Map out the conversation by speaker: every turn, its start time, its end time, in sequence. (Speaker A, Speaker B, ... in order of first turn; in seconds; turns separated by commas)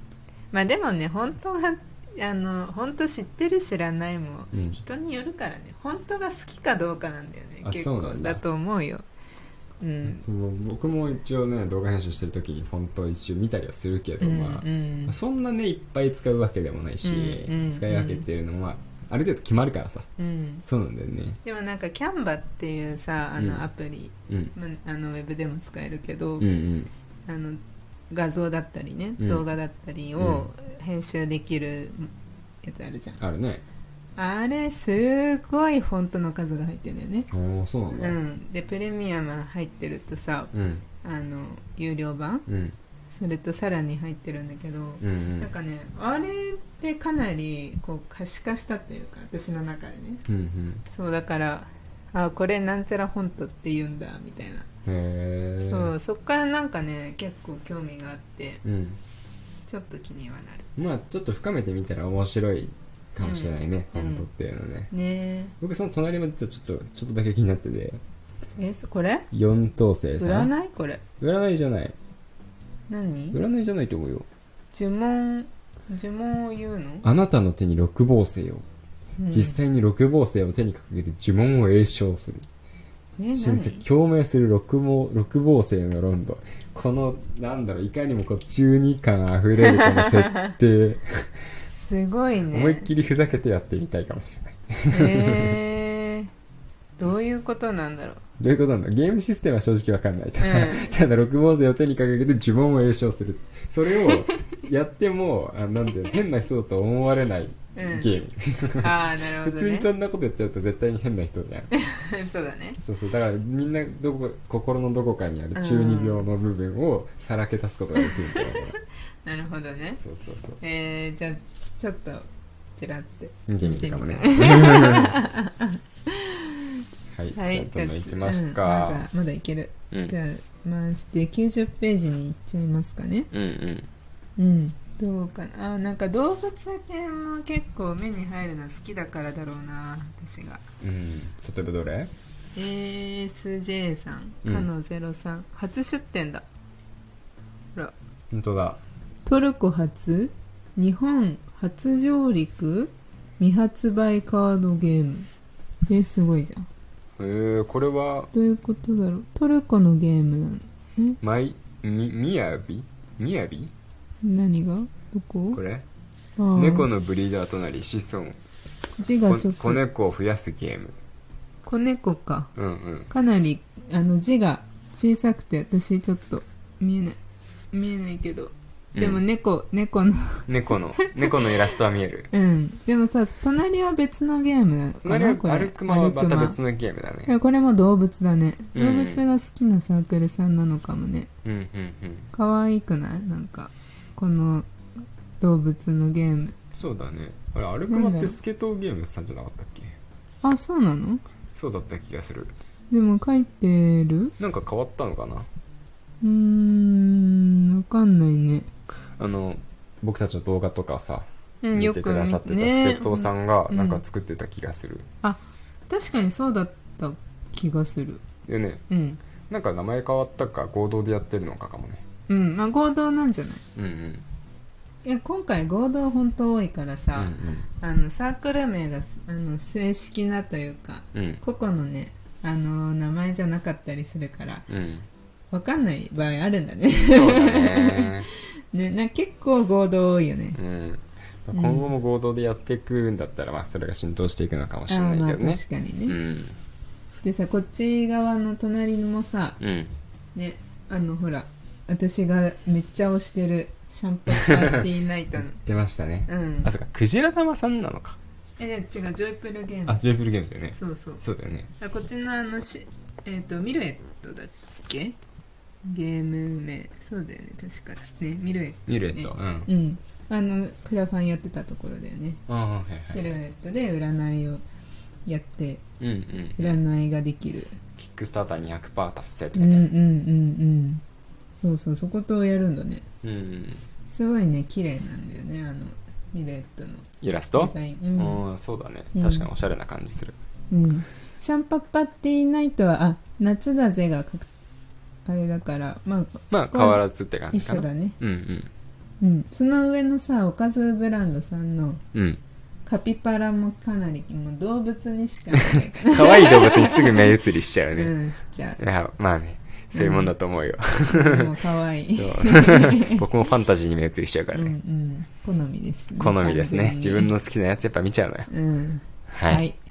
Speaker A: 0.5-9.0, Speaker B: 4.5-4.8, Speaker B: 7.6-8.4, Speaker A: 9.8-10.2, Speaker B: 10.0-20.1, Speaker A: 14.2-15.1, Speaker A: 17.0-18.2, Speaker A: 20.2-20.6, Speaker B: 20.6-21.4, Speaker A: 21.4-26.5, Speaker B: 23.4-23.6, Speaker B: 24.3-24.5, Speaker B: 26.4-26.9, Speaker A: 27.2-32.1, Speaker B: 29.2-29.4, Speaker B: 30.2-30.5, Speaker A: 32.6-33.2, Speaker B: 33.2-33.6, Speaker A: 34.2-37.3, Speaker B: 37.3-38.2, Speaker A: 37.9-42.5, Speaker B: 40.5-40.8, Speaker B: 42.5-42.8, Speaker A: 43.1-50.2, Speaker B: 45.0-45.5, Speaker B: 50.3-50.9, Speaker A: 50.9-54.6, Speaker B: 54.8-55.9, Speaker A: 55.6-58.6, Speaker B: 58.6-59.0, Speaker A: 59.7-60.7, Speaker B: 60.8-64.9, Speaker A: 63.2-64.3, Speaker A: 64.9-65.5, Speaker B: 65.6-68.0, Speaker A: 68.6-69.3, Speaker B: 69.3-70.5, Speaker A: 70.2-71.0, Speaker B: 71.2-72.0, Speaker A: 72.9-73.4, Speaker B: 73.3-74.3, Speaker A: 74.7-77.0, Speaker B: 77.0-78.7, Speaker A: 79.2-79.6, Speaker B: 79.3-82.5, Speaker A: 83.2-83.8, Speaker B: 83.3-91.4, Speaker A: 89.6-90.5, Speaker A: 91.7-92.9, Speaker B: 92.5-95.6, Speaker A: 94.9-96.3, Speaker A: 97.0-98.2, Speaker B: 98.4-111.7, Speaker A: 100.4-101.0, Speaker A: 104.0-104.5, Speaker A: 107.7-108.1, Speaker A: 108.8-109.9, Speaker A: 111.7-112.8, Speaker B: 112.8-118.8, Speaker A: 115.5-116.3, Speaker A: 118.0-118.7, Speaker A: 119.2-120.0, Speaker B: 120.0-120.6, Speaker A: 120.6-126.8, Speaker B: 123.5-125.2, Speaker B: 127.1-129.1, Speaker A: 127.3-133.3, Speaker B: 129.9-130.2, Speaker B: 133.3-133.9, Speaker A: 134.4-140.6, Speaker B: 140.8-142.1, Speaker A: 142.5-146.4, Speaker B: 148.3-148.8, Speaker A: 149.2-155.3, Speaker A: 155.9-156.7, Speaker B: 157.2-158.3, Speaker A: 158.3-161.2, Speaker B: 161.2-163.7, Speaker A: 164.2-165.6, Speaker B: 165.5-165.8, Speaker A: 166.4-166.9, Speaker B: 166.5-168.4, Speaker A: 169.0-169.8, Speaker B: 169.2-170.9, Speaker A: 171.6-172.5, Speaker B: 172.6-173.1, Speaker A: 173.1-177.2, Speaker A: 177.7-181.7, Speaker B: 178.9-179.2, Speaker B: 180.5-182.3, Speaker A: 182.3-186.6, Speaker B: 185.0-187.3, Speaker A: 187.3-191.3, Speaker B: 188.7-189.2, Speaker B: 191.4-192.3, Speaker A: 192.3-194.7, Speaker A: 195.4-196.6, Speaker B: 196.7-200.0, Speaker A: 197.9-198.4, Speaker A: 200.4-201.2, Speaker B: 201.6-202.5, Speaker A: 202.9-204.3, Speaker B: 204.4-205.5, Speaker A: 206.2-208.7, Speaker B: 209.2-215.1, Speaker A: 211.6-214.0, Speaker A: 215.2-218.2, Speaker B: 218.4-218.8, Speaker A: 218.9-219.2, Speaker B: 219.5-222.0, Speaker A: 222.3-223.6, Speaker B: 223.7-224.2, Speaker A: 225.0-234.7, Speaker B: 227.1-227.7, Speaker B: 231.1-231.4, Speaker B: 234.7-235.1, Speaker A: 235.5-240.6, Speaker B: 237.1-238.3, Speaker B: 240.5-246.6, Speaker A: 241.5-241.9, Speaker A: 244.9-246.2, Speaker A: 247.2-249.6, Speaker B: 249.6-249.9, Speaker A: 250.3-255.6, Speaker B: 254.3-254.8, Speaker B: 255.6-258.2, Speaker A: 256.3-256.7, Speaker A: 258.6-260.0, Speaker B: 259.9-261.7, Speaker A: 260.7-261.2, Speaker A: 261.8-265.1, Speaker A: 265.9-272.4, Speaker B: 268.9-269.7, Speaker B: 272.5-273.3, Speaker A: 273.1-274.6, Speaker A: 275.2-275.8, Speaker B: 276.0-276.8, Speaker A: 276.6-277.8, Speaker B: 277.9-279.9, Speaker A: 279.5-281.0, Speaker A: 281.6-283.0, Speaker B: 283.2-283.9, Speaker A: 284.1-288.4, Speaker B: 287.2-290.4, Speaker A: 289.1-289.5, Speaker A: 290.7-294.5, Speaker A: 295.2-297.0, Speaker B: 296.5-298.7, Speaker A: 297.5-298.2, Speaker A: 299.2-302.0, Speaker B: 302.1-302.4, Speaker A: 302.9-307.4, Speaker B: 305.6-308.1, Speaker A: 307.9-308.8, Speaker B: 308.8-311.6, Speaker A: 309.9-310.3, Speaker A: 311.1-313.3, Speaker B: 312.1-314.7, Speaker A: 314.5-317.3, Speaker B: 316.2-318.5, Speaker A: 318.5-319.8, Speaker B: 319.3-319.6